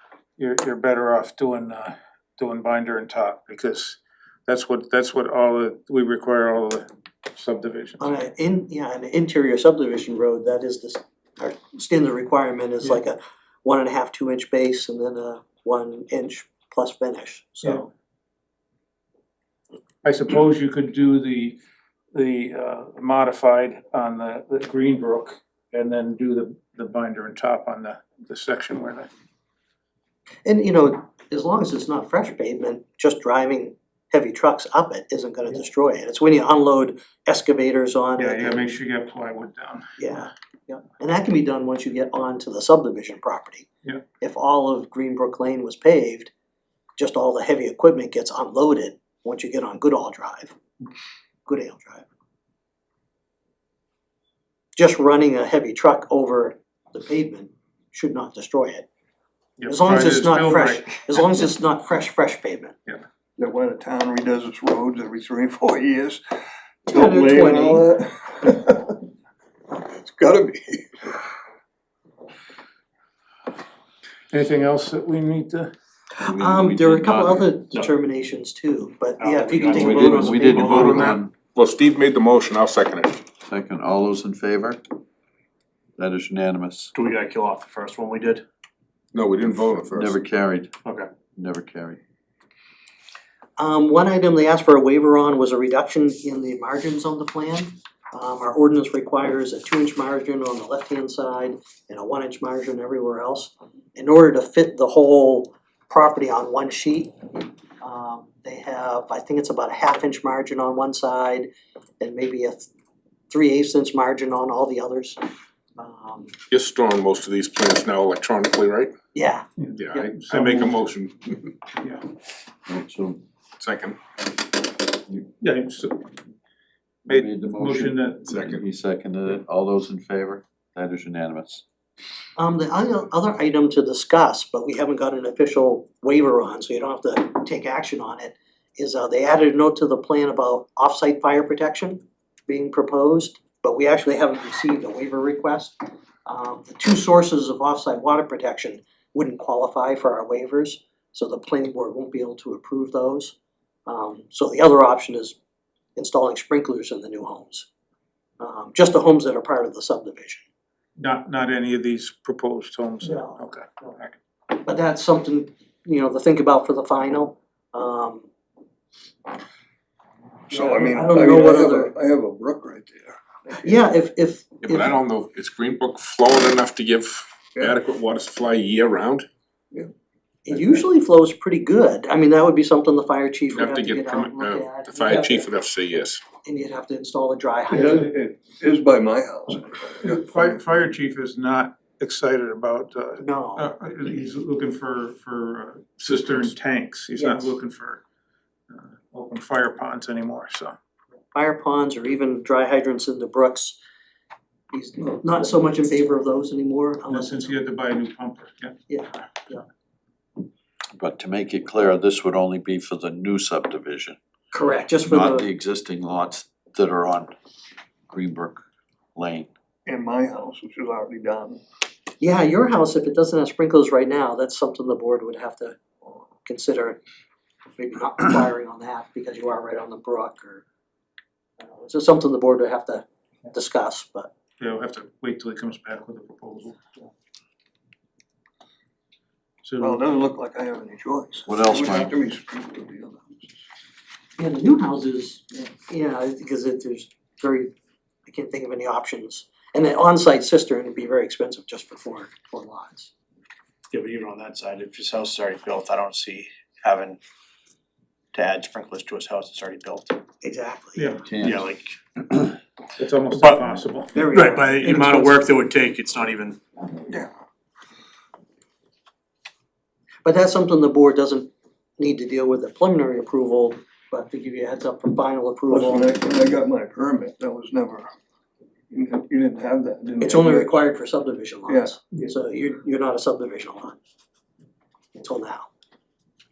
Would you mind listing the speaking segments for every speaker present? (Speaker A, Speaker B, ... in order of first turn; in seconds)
Speaker A: 0.4-8.1, 20.0-21.6, 22.1-29.1, 38.2-40.3, 59.6-61.2, 74.3-75.7, 119.6-120.8, 125.4-126.1, 127.1-128.3, 161.0-164.2, 190.0-198.0, 198.7-200.8, 207.1-208.8, 234.6-236.8, 239.6-240.0, 261.0-261.2, 263.0-264.2
Speaker B: 8.0-17.9, 30.4-38.6, 40.0-43.7, 44.2-46.3, 47.0-50.6, 51.5-52.1, 54.8-58.9, 59.7-62.8, 66.9-67.9, 76.2-81.1, 93.6-111.5, 112.0-112.7, 113.3-115.2, 115.8-116.3, 119.1-120.0, 132.4-153.3, 153.9-155.4, 156.0-157.7, 158.4-160.4, 163.0-163.4, 164.6-168.3, 170.5-171.9, 173.6-174.9, 180.5-185.5, 186.4-188.1, 193.2-193.7, 197.2-197.6, 201.3-203.8, 204.7-207.5, 208.9-209.6, 214.5-215.4, 222.2-225.8, 226.5-227.0, 227.8-230.6, 231.6-234.3, 244.4-247.7, 248.3-253.1, 260.4-261.1, 264.1-265.4, 270.2-276.1, 280.2-284.0, 285.1-285.7
Speaker C: 63.4-66.2, 66.9-69.0, 69.7-71.2, 170.5-173.8, 180.5-180.8, 187.7-190.6, 219.9-221.6, 239.8-243.6, 275.7-278.1, 278.9-280.9, 281.7-282.1
Speaker D: 76.2-77.5, 79.7-81.3, 83.4-84.8, 86.0-86.9, 89.9-90.7, 91.4-92.0, 122.7-123.2, 127.1-131.6, 211.0-214.2, 215.0-217.3, 218.1-218.6, 219.2-219.5, 241.5-242.1, 261.3-261.7
Speaker E: 79.2-81.0, 87.0-88.5, 253.9-257.2, 258.3-260.2, 261.4-262.5, 263.4-266.6
Speaker F: 80.6-83.2, 89.1-90.1, 116.5-118.9, 119.8-121.5, 123.6-124.0, 128.3-128.6, 174.6-179.3, 183.6-186.2